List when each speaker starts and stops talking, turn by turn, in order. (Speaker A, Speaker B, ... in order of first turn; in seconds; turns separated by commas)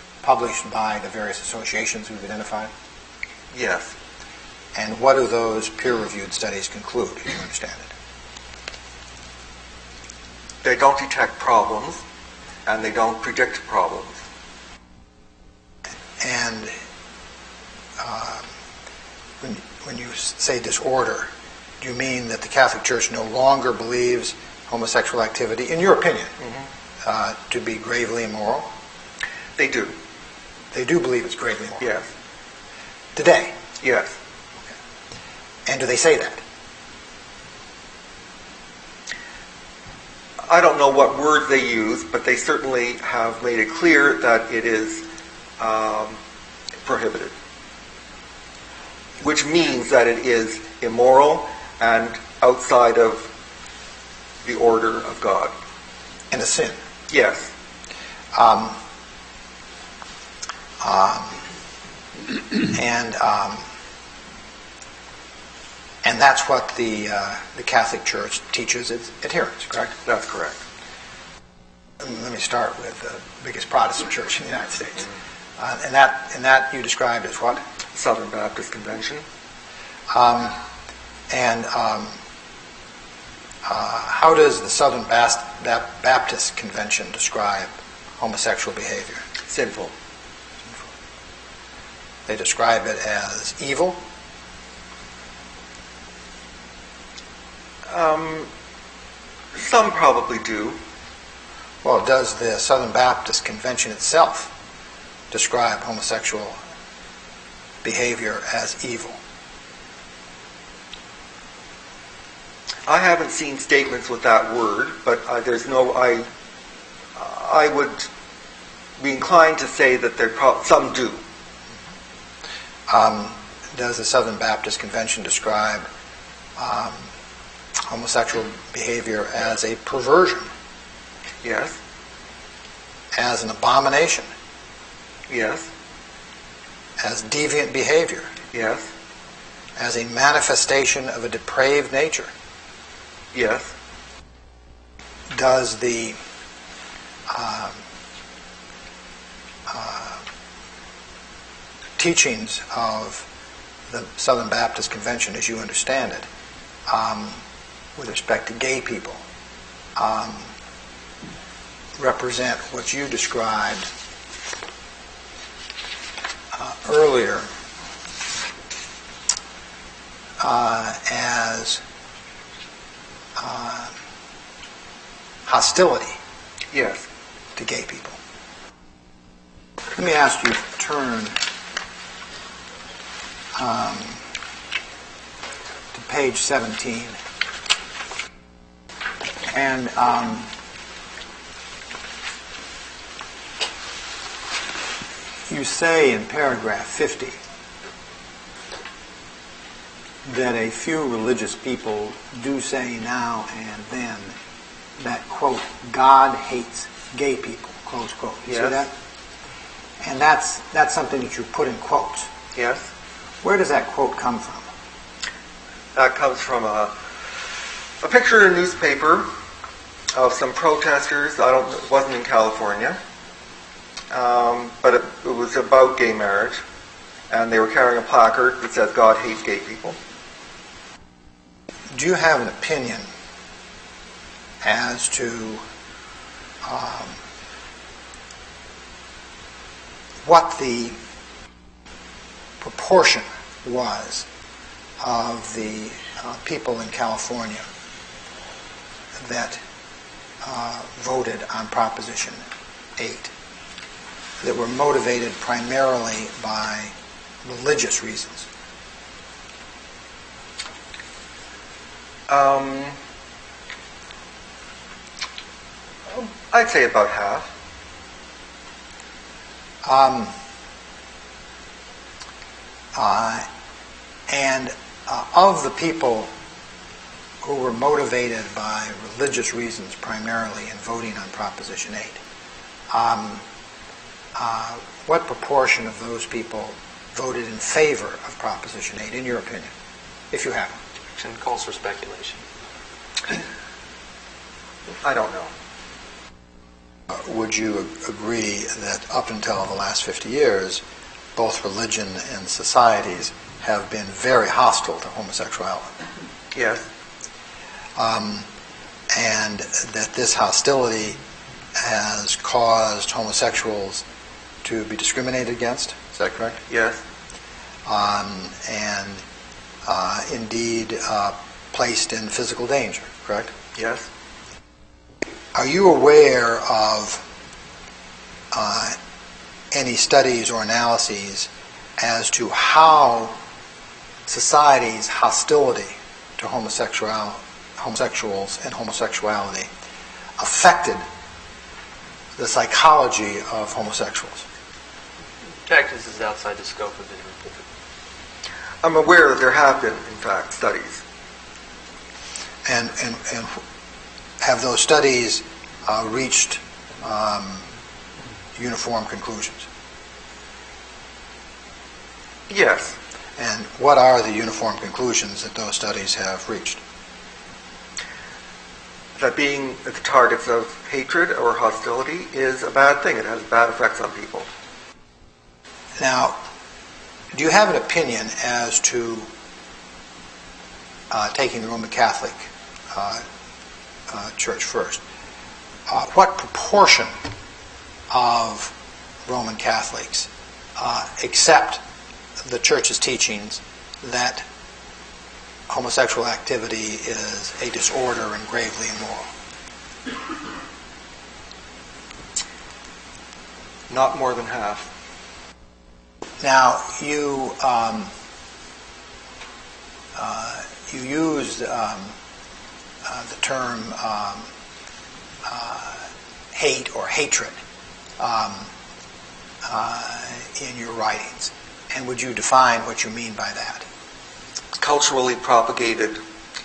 Speaker A: 0.2-2.7, Speaker B: 3.5-4.0, Speaker A: 4.8-7.9, Speaker B: 10.6-12.0, Speaker B: 12.7-14.2, Speaker A: 16.2-16.8, Speaker A: 18.0-18.5, Speaker A: 19.4-26.4, Speaker B: 26.4-26.7, Speaker A: 27.0-28.7, Speaker B: 29.6-29.9, Speaker A: 30.7-31.9, Speaker B: 31.8-32.1, Speaker A: 33.2-33.6, Speaker B: 33.8-34.2, Speaker A: 35.7-36.4, Speaker B: 40.4-45.0, Speaker B: 45.6-46.2, Speaker B: 46.8-47.3, Speaker B: 49.2-53.3, Speaker B: 54.4-55.5, Speaker A: 56.3-56.8, Speaker B: 57.1-57.5, Speaker A: 58.3-58.8, Speaker A: 60.8-61.5, Speaker A: 62.7-63.6, Speaker A: 66.0-70.0, Speaker B: 69.9-70.6, Speaker A: 72.0-77.6, Speaker B: 77.8-79.2, Speaker A: 80.1-80.6, Speaker A: 81.3-82.2, Speaker A: 83.6-89.2, Speaker B: 89.4-89.9, Speaker A: 92.3-94.0, Speaker B: 97.9-98.5, Speaker B: 99.5-100.8, Speaker A: 101.8-104.5, Speaker A: 105.3-106.6, Speaker A: 107.8-109.2, Speaker B: 112.9-116.3, Speaker B: 117.2-118.1, Speaker B: 119.0-121.2, Speaker A: 122.9-125.9, Speaker A: 126.6-127.1, Speaker A: 127.9-130.5, Speaker B: 131.4-131.8, Speaker A: 133.1-134.3, Speaker B: 135.3-135.7, Speaker A: 137.0-138.4, Speaker B: 138.5-138.9, Speaker A: 139.8-142.3, Speaker B: 143.3-143.7, Speaker A: 145.3-146.2, Speaker A: 147.3-147.8, Speaker A: 149.7-150.2, Speaker A: 152.0-153.3, Speaker A: 153.9-156.3, Speaker A: 156.9-157.4, Speaker A: 158.0-159.2, Speaker A: 160.0-160.5, Speaker A: 162.0-163.9, Speaker A: 166.5-167.5, Speaker A: 170.4-171.8, Speaker A: 173.4-173.9, Speaker A: 175.4-176.2, Speaker B: 176.7-177.1, Speaker A: 177.6-178.2, Speaker A: 179.9-181.4, Speaker A: 183.6-184.2, Speaker A: 185.9-187.2, Speaker A: 189.5-190.5, Speaker A: 195.5-197.4, Speaker A: 200.2-204.4, Speaker A: 205.0-208.9, Speaker B: 208.5-208.9, Speaker A: 210.0-212.3, Speaker B: 212.5-212.9, Speaker A: 213.4-214.7, Speaker B: 215.9-217.0, Speaker B: 218.0-219.3, Speaker B: 220.1-223.0, Speaker B: 224.1-226.6, Speaker B: 227.3-230.0, Speaker A: 231.9-233.1, Speaker A: 234.6-235.6, Speaker A: 236.6-237.2, Speaker A: 240.2-241.0, Speaker A: 242.6-244.3, Speaker A: 245.0-247.7, Speaker A: 249.2-249.6, Speaker A: 250.4-252.4, Speaker A: 253.0-253.3, Speaker A: 254.4-258.5, Speaker B: 262.3-263.0, Speaker B: 266.1-267.5, Speaker A: 269.8-270.4, Speaker A: 272.9-273.5, Speaker A: 274.3-276.3, Speaker A: 277.4-282.2, Speaker A: 282.9-283.4, Speaker A: 284.4-289.7, Speaker A: 290.3-290.8, Speaker C: 291.1-292.4, Speaker B: 295.0-295.5, Speaker A: 297.1-300.8, Speaker A: 301.4-305.9, Speaker B: 306.5-306.9, Speaker A: 308.0-308.5, Speaker A: 309.1-311.2, Speaker A: 311.8-314.0, Speaker A: 314.6-316.6, Speaker B: 316.7-317.0, Speaker A: 317.9-319.2, Speaker A: 319.9-323.5, Speaker B: 323.7-324.1, Speaker A: 325.5-327.2, Speaker A: 328.5-329.0, Speaker A: 329.7-333.4, Speaker A: 334.3-339.7, Speaker A: 340.4-341.0, Speaker A: 342.4-344.5, Speaker C: 345.6-347.6, Speaker B: 348.8-351.0, Speaker A: 352.7-353.6, Speaker A: 354.4-357.6, Speaker A: 358.6-359.7, Speaker B: 362.5-363.0, Speaker A: 363.4-366.8, Speaker B: 369.2-374.5, Speaker A: 376.0-376.4, Speaker A: 377.3-379.3, Speaker A: 381.1-383.3, Speaker A: 384.1-385.0, Speaker A: 385.9-387.1, Speaker A: 388.1-388.8, Speaker A: 389.3-391.8, Speaker A: 392.4-394.5, Speaker A: 395.7-399.3, Speaker B: 403.9-404.9, Speaker A: 406.4-408.1, Speaker A: 410.1-412.2, Speaker A: 413.1-414.5, Speaker A: 415.4-417.6, Speaker A: 418.2-418.7, Speaker A: 419.6-423.9, Speaker B: 424.8-426.2